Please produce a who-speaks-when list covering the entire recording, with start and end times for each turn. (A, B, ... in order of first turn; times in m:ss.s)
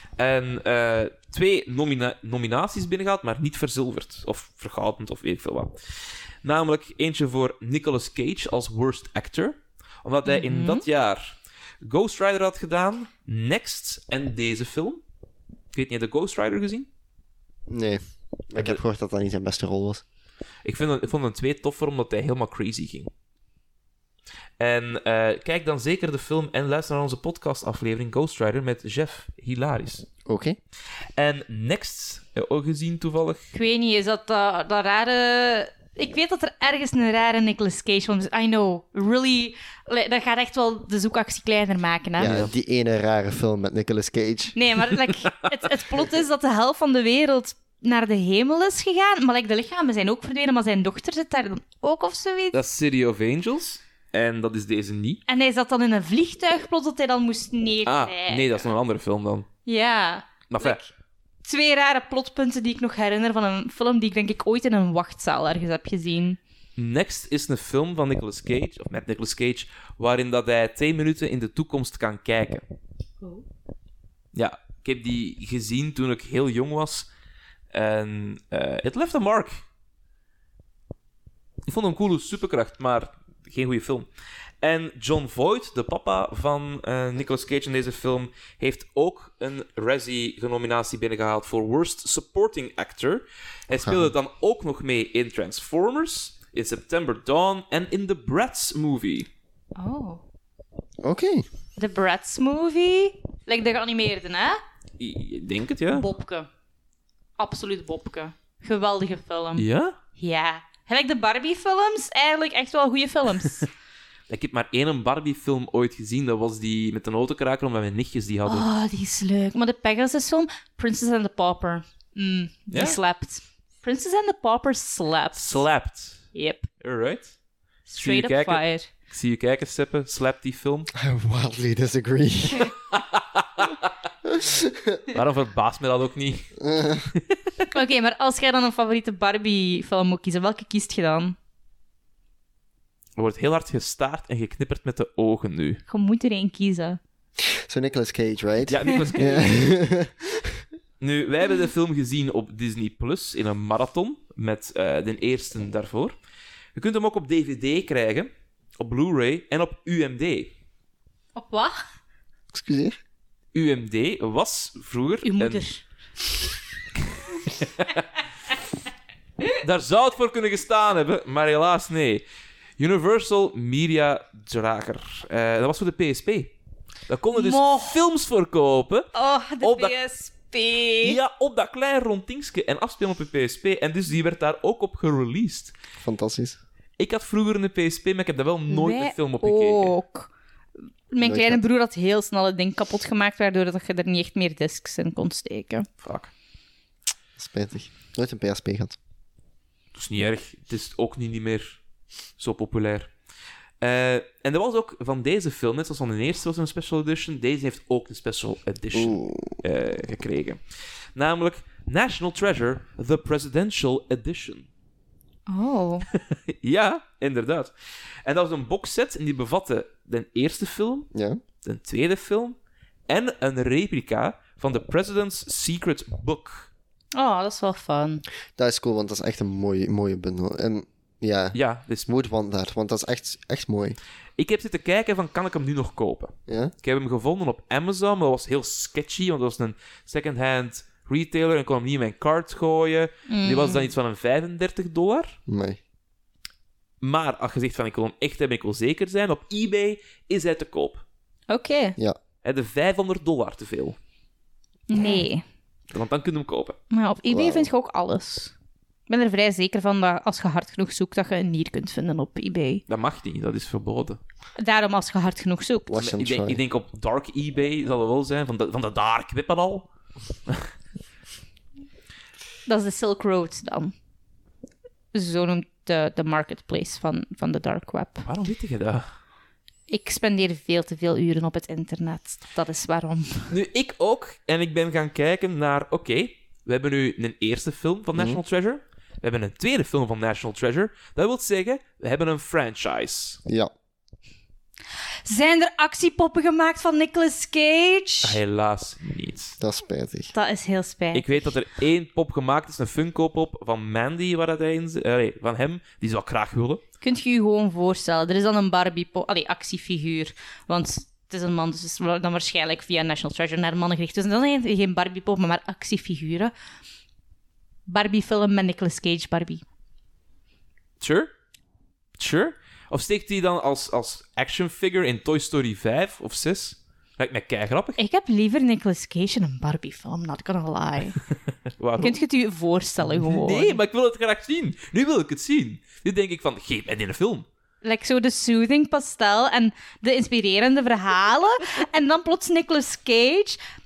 0:00.2-0:15.0 A
0:10.3-0:10.8 B
0:15.7-0:16.9 A
0:17.7-0:20.0 C
0:20.6-0:23.1 A
0:24.6-0:30.0 A
0:30.2-0:30.6 C
0:31.2-0:33.5 A
0:33.5-0:42.3 B
0:42.2-0:44.6 C
0:42.2-0:42.5 A
0:44.5-0:52.6 B
0:52.5-0:55.2 A
0:55.3-0:58.6 B
0:57.8-0:59.5 A
0:59.6-1:00.9 B
1:00.5-1:00.8 A
1:01.4-1:06.4 B
1:06.8-1:12.6 A
1:14.3-1:17.1 A
1:17.7-1:19.6 A
1:21.7-1:24.1 A
1:24.6-1:39.3 A
1:33.7-1:34.1 C
1:39.8-1:40.2 B
1:41.0-1:41.4 C
1:41.8-1:44.6 B
1:45.0-1:46.0 A
1:45.9-1:46.5 B
1:47.4-1:49.6 B
1:49.6-1:50.0 A
1:50.2-1:53.7 B
1:54.3-1:58.7 A
1:58.4-2:05.6 B
2:02.7-2:03.0 A
2:05.4-2:06.3 A
2:06.3-2:06.7 B
2:06.8-2:07.3 A
2:07.9-2:08.9 B
2:08.0-2:10.9 A
2:10.9-2:12.7 C
2:12.9-2:13.8 A
2:14.2-2:15.0 C
2:15.1-2:16.5 A
2:16.6-2:17.1 C
2:17.1-2:17.6 A
2:17.7-2:21.4 B
2:23.2-2:25.8 A
2:25.9-2:27.0 B
2:27.4-2:30.6 C
2:28.7-2:29.6 A
2:31.0-2:36.1 A
2:36.7-2:40.5 A
2:41.4-2:41.8 B
2:42.5-2:43.0 C
2:43.5-2:45.6 A
2:45.2-2:45.8 B
2:47.4-2:48.0 A
2:49.6-2:52.2 A
2:52.8-2:56.5 A
2:57.1-2:59.1 A
2:57.3-2:58.0 B
2:59.1-3:01.2 B
2:59.6-2:59.9 A
3:01.0-3:05.7 A
3:06.0-3:06.6 C
3:07.0-3:09.9 A
3:08.7-3:10.3 B
3:11.1-3:15.9 B
3:11.2-3:11.6 C
3:16.0-3:16.3 A
3:17.4-3:19.0 C
3:19.9-3:21.8 A
3:22.4-3:23.1 A
3:23.8-3:30.6 A
3:28.9-3:29.6 C
3:31.1-3:34.7 A
3:35.5-3:36.1 B
3:36.1-3:37.7 A
3:38.2-3:41.1 A
3:41.1-3:41.4 C
3:41.6-3:42.6 A
3:43.1-3:46.7 A
3:47.1-3:48.2 B
3:48.6-3:54.0 C
3:51.5-3:52.1 A
3:54.4-4:05.4 A
3:56.5-3:56.7 C
4:03.3-4:03.9 B
4:05.5-4:05.8 C
4:07.0-4:11.0 A
4:11.5-4:12.0 B
4:12.4-4:14.0 A
4:14.9-4:15.4 B
4:15.9-4:16.8 A
4:16.9-4:18.5 B
4:17.3-4:17.7 C
4:19.1-4:22.8 B
4:22.9-4:24.2 A
4:24.6-4:25.9 B
4:25.9-4:26.6 C
4:26.0-4:29.9 A
4:32.6-4:33.9 B
4:35.1-4:38.3 B
4:38.2-4:39.1 A
4:39.9-4:43.5 B
4:43.5-4:53.4 A
4:48.1-4:48.4 C
4:55.2-4:58.4 B
4:58.2-4:59.6 A
4:59.6-5:00.3 C
5:00.3-5:01.5 B
5:01.1-5:06.8 A
5:07.0-5:16.5 B
5:17.9-5:19.6 B
5:21.0-5:21.3 A
5:22.2-5:28.0 A
5:28.0-5:31.2 B
5:31.8-5:32.2 A
5:32.0-5:33.8 B
5:33.1-5:37.4 A
5:37.8-5:43.6 B